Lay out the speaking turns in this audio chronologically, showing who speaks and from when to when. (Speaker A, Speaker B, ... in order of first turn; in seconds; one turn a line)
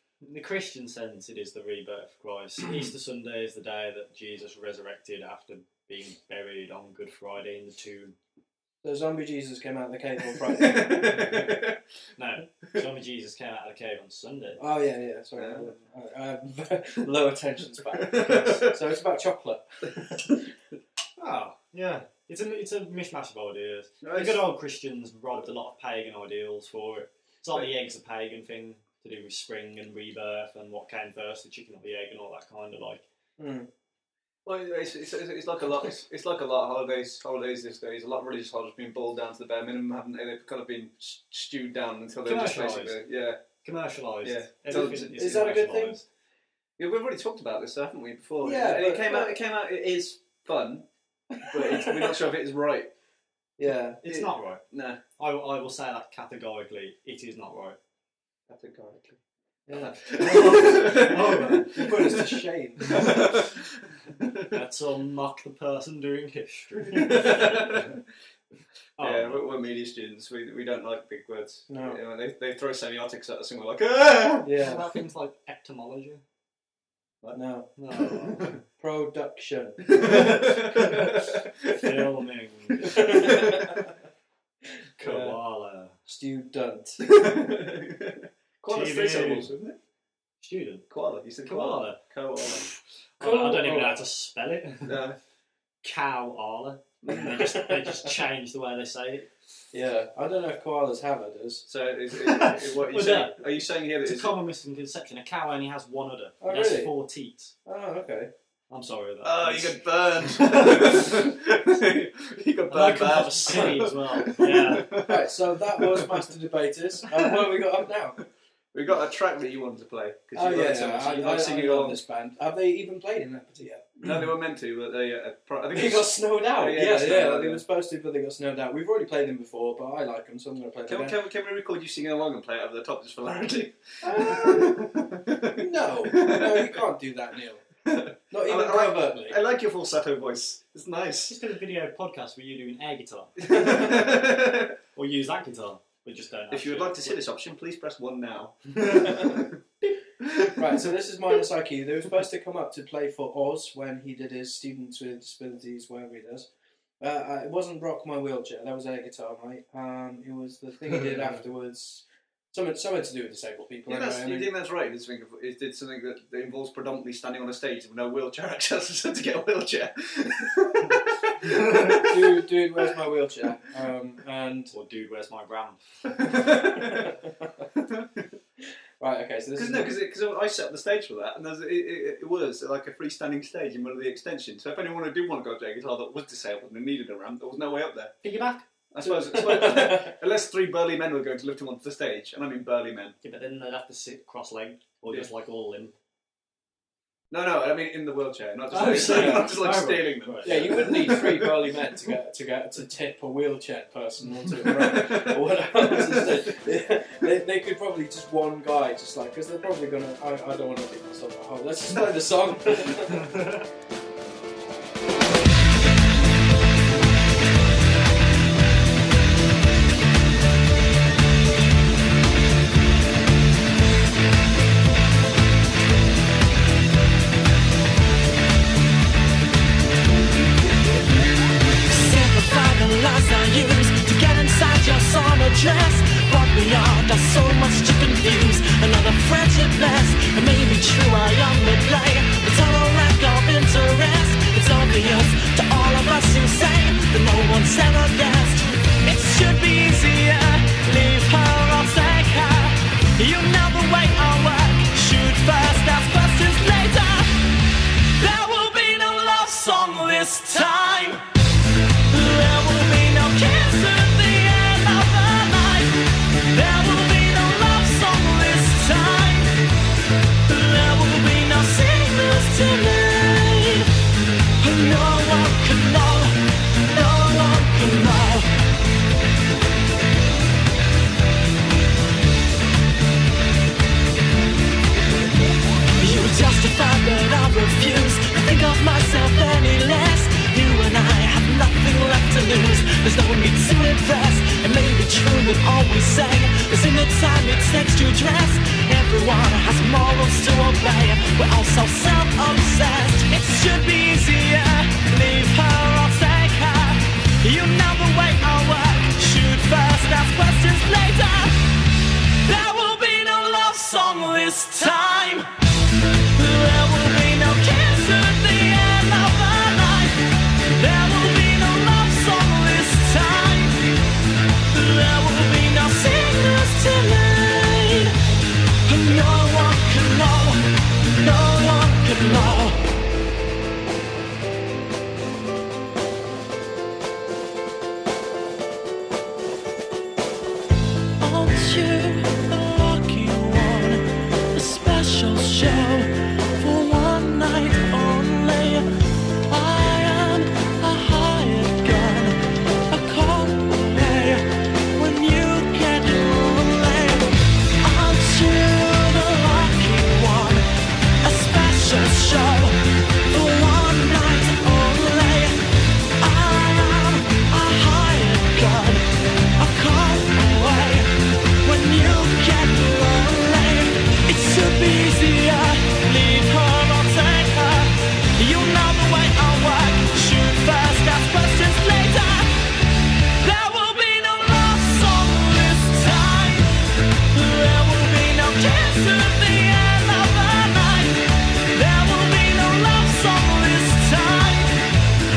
Speaker A: 0.2-8.1
Speaker B: 8.8-11.3
Speaker C: 10.4-11.8
Speaker A: 11.1-11.5
Speaker A: 12.2-14.6
Speaker B: 14.6-20.3
Speaker C: 15.4-15.8
Speaker C: 17.9-18.8
Speaker A: 18.2-18.6
Speaker A: 21.2-33.0
Speaker C: 24.0-24.4
Speaker B: 33.4-33.7
Speaker C: 34.4-43.4
Speaker A: 42.2-43.0
Speaker A: 43.6-46.0
Speaker C: 44.2-45.4
Speaker B: 44.7-46.0
Speaker C: 46.8-50.9
Speaker B: 48.4-49.4
Speaker B: 51.4-52.1
Speaker C: 51.5-52.9
Speaker B: 53.6-54.0
Speaker A: 54.0-54.6
Speaker C: 54.0-55.0
Speaker A: 55.2-57.8
Speaker C: 58.5-59.2
Speaker B: 59.7-63.3
Speaker C: 59.8-62.0
Speaker A: 60.1-62.2
Speaker A: 62.9-63.4
Speaker C: 62.9-64.5
Speaker A: 64.4-68.0
Speaker C: 66.9-68.0
Speaker A: 69.0-69.5
Speaker C: 69.0-74.6
Speaker B: 71.7-72.0
Speaker B: 74.4-74.8
Speaker A: 74.6-76.2
Speaker B: 77.3-77.7
Speaker A: 77.8-78.6
Speaker C: 78.0-78.5
Speaker B: 78.8-80.6
Speaker C: 79.9-82.1
Speaker A: 80.1-81.0
Speaker A: 81.7-83.6
Speaker C: 82.8-83.8
Speaker B: 82.9-83.8
Speaker A: 85.0-85.9
Speaker C: 85.0-85.4
Speaker B: 86.1-87.1
Speaker C: 87.0-89.8
Speaker A: 88.7-89.5
Speaker A: 90.4-90.9
Speaker C: 90.9-92.7
Speaker A: 91.4-92.0
Speaker A: 92.5-95.1
Speaker B: 93.2-94.1
Speaker C: 94.8-95.2
Speaker A: 95.8-99.3
Speaker C: 97.0-97.3
Speaker B: 97.2-98.1
Speaker B: 99.7-101.7
Speaker C: 101.7-104.4
Speaker A: 102.2-103.4
Speaker A: 104.0-107.5
Speaker B: 106.4-106.9
Speaker B: 107.7-108.3
Speaker A: 108.7-111.2
Speaker C: 109.2-116.3
Speaker A: 112.7-115.0
Speaker B: 114.9-118.2
Speaker C: 118.7-122.0
Speaker B: 120.3-124.0
Speaker C: 124.0-127.6
Speaker B: 125.7-131.2
Speaker C: 130.9-136.8
Speaker B: 134.0-134.8
Speaker B: 135.6-137.6
Speaker C: 137.8-141.4
Speaker B: 138.3-139.4
Speaker A: 141.3-143.4
Speaker C: 143.4-144.8
Speaker B: 143.5-143.9
Speaker A: 144.9-147.2
Speaker C: 146.5-149.6
Speaker A: 148.7-149.2
Speaker C: 150.2-150.9
Speaker B: 150.6-156.5
Speaker B: 157.0-164.5
Speaker C: 163.9-172.4
Speaker A: 171.5-171.8
Speaker B: 171.9-174.8
Speaker A: 174.7-176.0
Speaker C: 176.1-177.1
Speaker B: 176.7-177.3
Speaker C: 177.7-178.3
Speaker B: 179.0-180.0
Speaker C: 179.6-188.1
Speaker A: 188.2-189.4
Speaker C: 188.9-193.1
Speaker B: 189.3-190.1
Speaker A: 193.2-195.9
Speaker C: 197.3-201.9
Speaker A: 198.7-201.3
Speaker B: 199.0-199.5
Speaker B: 200.4-213.3
Speaker C: 204.5-206.4
Speaker A: 213.0-213.6
Speaker D: 231.9-257.3
Speaker D: 258.2-261.2
Speaker D: 262.1-269.5
Speaker D: 270.5-273.9
Speaker D: 274.6-278.5
Speaker D: 286.0-311.6
Speaker D: 312.4-315.5
Speaker D: 316.4-323.9
Speaker D: 324.7-328.1
Speaker D: 328.9-332.8
Speaker D: 341.2-348.9
Speaker D: 349.5-352.4
Speaker D: 352.9-354.4
Speaker D: 354.9-360.6
Speaker D: 361.2-362.8
Speaker D: 363.3-365.6
Speaker D: 366.2-369.0
Speaker D: 369.6-371.1
Speaker D: 371.6-382.5
Speaker D: 383.4-386.7
Speaker D: 387.3-391.2
Speaker D: 391.7-394.8